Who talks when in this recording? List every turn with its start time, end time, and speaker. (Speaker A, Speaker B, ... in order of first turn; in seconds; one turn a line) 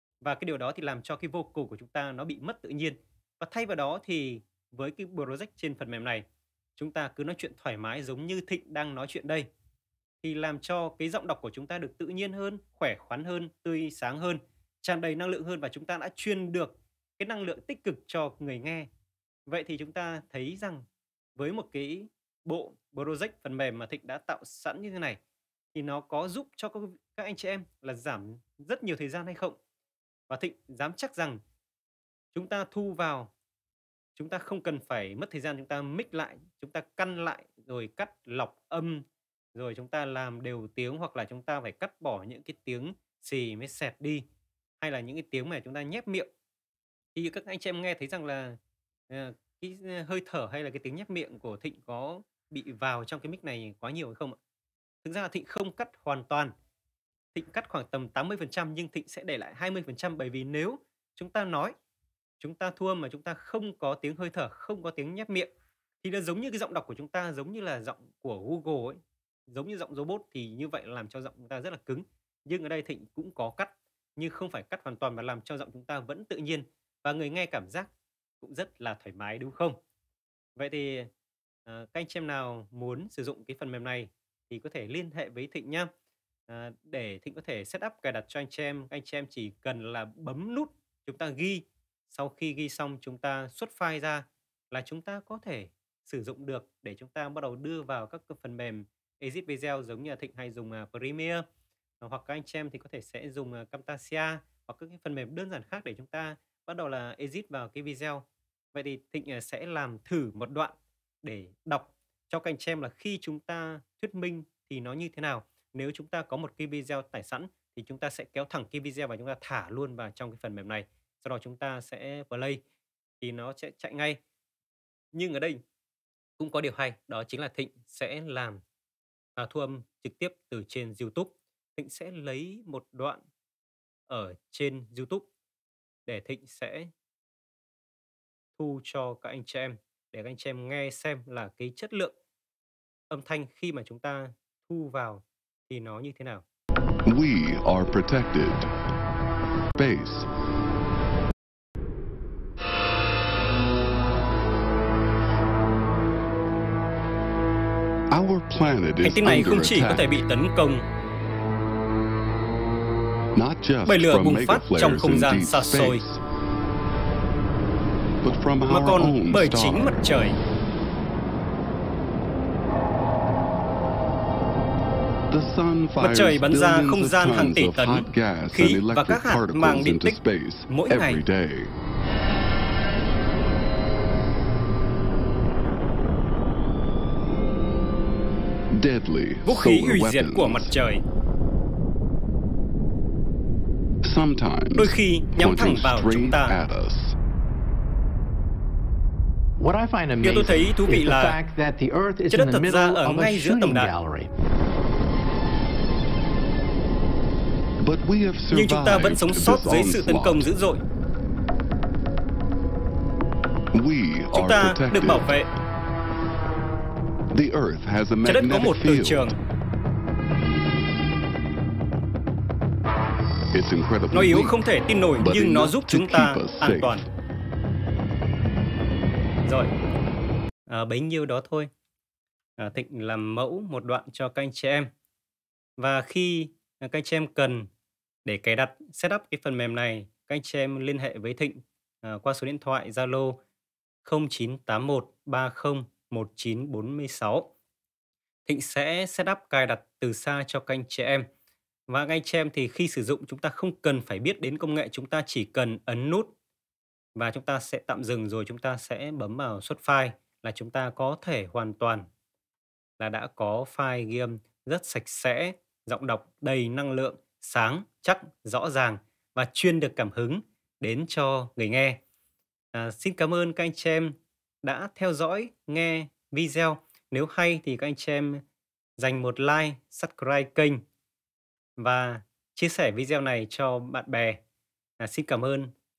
Speaker A: 0.2-6.2
Speaker A: 6.8-9.4
Speaker A: 10.2-18.9
Speaker A: 19.5-20.8
Speaker A: 21.4-25.2
Speaker A: 25.7-29.6
Speaker A: 30.3-31.4
Speaker A: 32.3-33.3
Speaker A: 34.1-39.0
Speaker A: 39.5-44.2
Speaker A: 44.8-46.3
Speaker A: 47.1-48.6
Speaker A: 49.1-54.4
Speaker A: 55.0-56.5
Speaker A: 57.3-61.7
Speaker A: 62.4-69.0
Speaker A: 69.5-79.8
Speaker A: 80.5-81.1
Speaker A: 81.7-85.9
Speaker A: 86.5-101.4
Speaker A: 102.0-122.6
Speaker A: 123.2-124.2
Speaker A: 125.1-125.6
Speaker A: 126.4-128.6
Speaker A: 129.4-133.2
Speaker A: 134.1-135.3
Speaker A: 136.1-136.9
Speaker A: 138.6-142.2
Speaker A: 143.1-146.4
Speaker B: 147.1-148.7
Speaker B: 149.8-150.3
Speaker B: 158.1-160.2
Speaker A: 159.0-160.8
Speaker B: 163.3-166.2
Speaker A: 163.8-166.0
Speaker B: 168.2-170.0
Speaker A: 168.7-170.4
Speaker B: 175.3-181.7
Speaker A: 176.0-181.2
Speaker B: 188.7-190.7
Speaker A: 189.4-191.0
Speaker B: 194.0-197.2
Speaker A: 194.7-196.6
Speaker C: 199.6-204.3
Speaker A: 200.2-201.4
Speaker A: 202.3-203.9
Speaker B: 207.8-210.5
Speaker A: 208.5-210.8
Speaker B: 213.7-215.3
Speaker A: 214.3-215.5
Speaker B: 217.3-219.3
Speaker A: 218.2-219.4
Speaker B: 223.5-224.6
Speaker A: 224.1-227.1
Speaker B: 225.2-227.0
Speaker A: 229.4-229.7
Speaker A: 230.7-231.7
Speaker A: 232.6-234.9
Speaker A: 235.8-237.7
Speaker A: 238.2-243.4
Speaker A: 244.0-247.5
Speaker A: 248.4-251.3
Speaker A: 251.9-256.3
Speaker A: 257.1-262.1
Speaker A: 263.0-272.0
Speaker A: 272.7-278.4
Speaker A: 279.0-280.8
Speaker A: 281.8-284.4
Speaker A: 285.0-285.7